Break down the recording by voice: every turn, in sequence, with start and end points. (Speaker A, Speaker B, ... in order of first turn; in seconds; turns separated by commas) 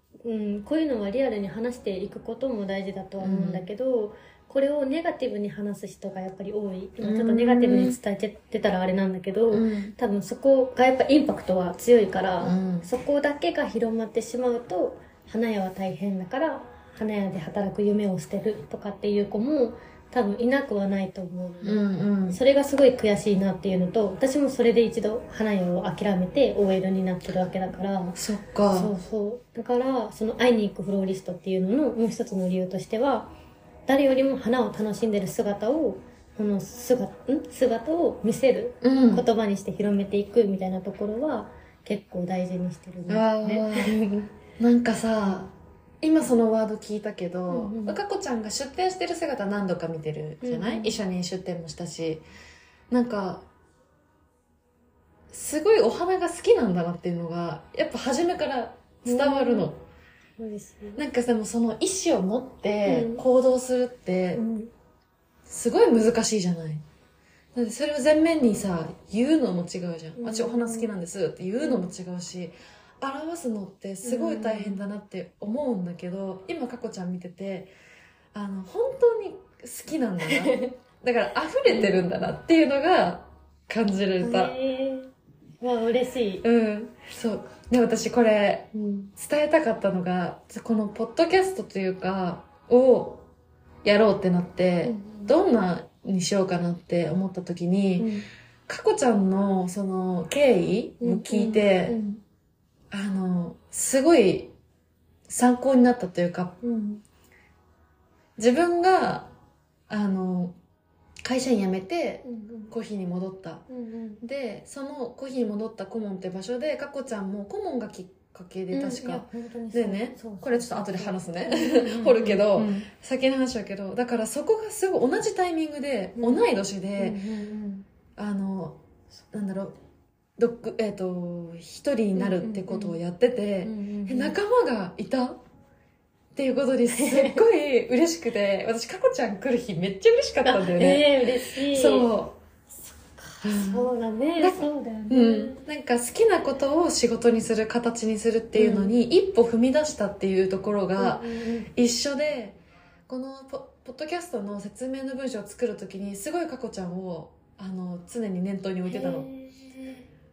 Speaker A: 0.2-28.2, Speaker B: 3.2-3.6, Speaker B: 7.0-8.0, Speaker B: 9.5-9.9, Speaker B: 12.4-12.9, Speaker B: 21.6-22.4, Speaker B: 28.1-28.9, Speaker A: 28.7-33.3, Speaker A: 33.9-44.3, Speaker B: 38.8-39.2, Speaker B: 43.1-44.0, Speaker B: 44.6-52.2, Speaker A: 47.5-48.0, Speaker A: 50.4-51.0, Speaker B: 52.9-53.5, Speaker B: 55.3-59.8, Speaker A: 59.0-59.7, Speaker A: 60.4-61.0, Speaker B: 61.0-64.4, Speaker A: 62.8-63.2, Speaker A: 64.3-64.7, Speaker B: 65.5-66.8, Speaker B: 67.5-77.7, Speaker A: 70.2-70.9, Speaker A: 71.6-71.9, Speaker A: 74.0-74.8, Speaker B: 78.3-84.5, Speaker A: 80.2-80.7, Speaker A: 81.7-82.0, Speaker A: 84.2-86.4, Speaker B: 86.4-93.2, Speaker A: 88.7-89.1, Speaker B: 93.8-98.1, Speaker A: 94.8-95.3, Speaker A: 98.0-98.2, Speaker B: 98.7-102.0, Speaker A: 101.0-102.2, Speaker B: 102.9-104.5, Speaker B: 105.3-106.6, Speaker A: 106.6-107.0, Speaker B: 108.4-109.3, Speaker B: 109.9-110.5, Speaker B: 111.2-113.7, Speaker A: 112.2-112.7, Speaker A: 113.7-114.2, Speaker B: 114.2-127.2, Speaker A: 118.7-122.9, Speaker A: 126.2-126.4, Speaker A: 127.0-127.8, Speaker B: 128.2-128.8, Speaker B: 129.3-129.8, Speaker B: 130.4-135.4, Speaker A: 132.1-133.0, Speaker A: 133.6-134.4, Speaker B: 136.3-142.4, Speaker A: 136.9-137.4, Speaker A: 140.4-142.1, Speaker A: 142.9-145.6, Speaker B: 143.4-159.4, Speaker A: 148.5-148.9, Speaker A: 151.0-151.7, Speaker A: 158.9-160.0